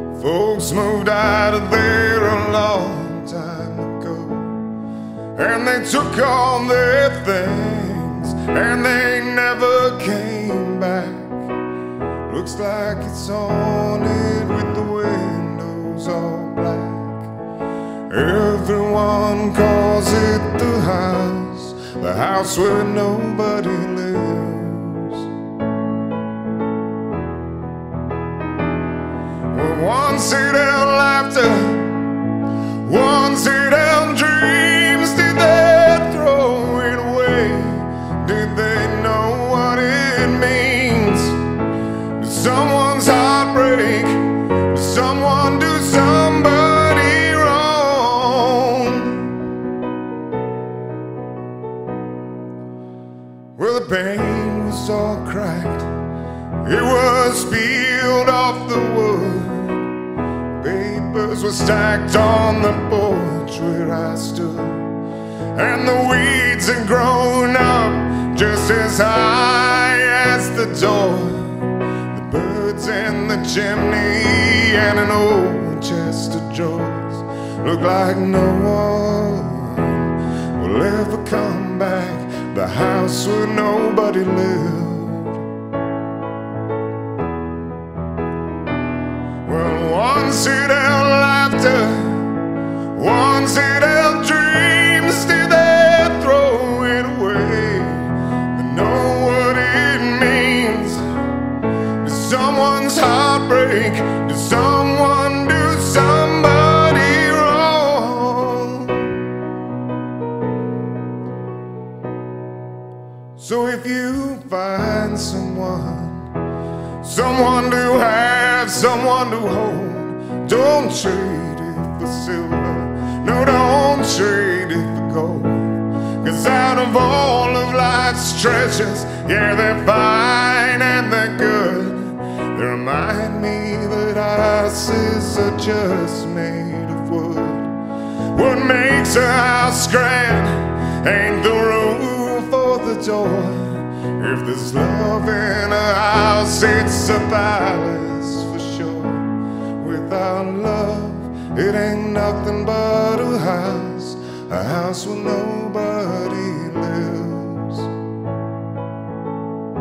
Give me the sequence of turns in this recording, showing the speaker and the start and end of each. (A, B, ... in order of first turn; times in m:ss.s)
0:00.1-0:04.6 A
0:05.3-0:11.5 A
0:12.2-0:17.3 A
0:18.1-0:25.3 A
0:29.5-0:32.1 A
0:32.8-0:41.5 A
0:42.1-0:49.4 A
0:53.6-0:56.0 A
0:56.6-1:00.0 A
1:00.5-1:05.0 A
1:05.5-1:25.5 A
1:29.4-1:41.1 A
1:42.0-1:49.2 A
1:53.4-1:56.4 A
1:57.0-2:37.9 A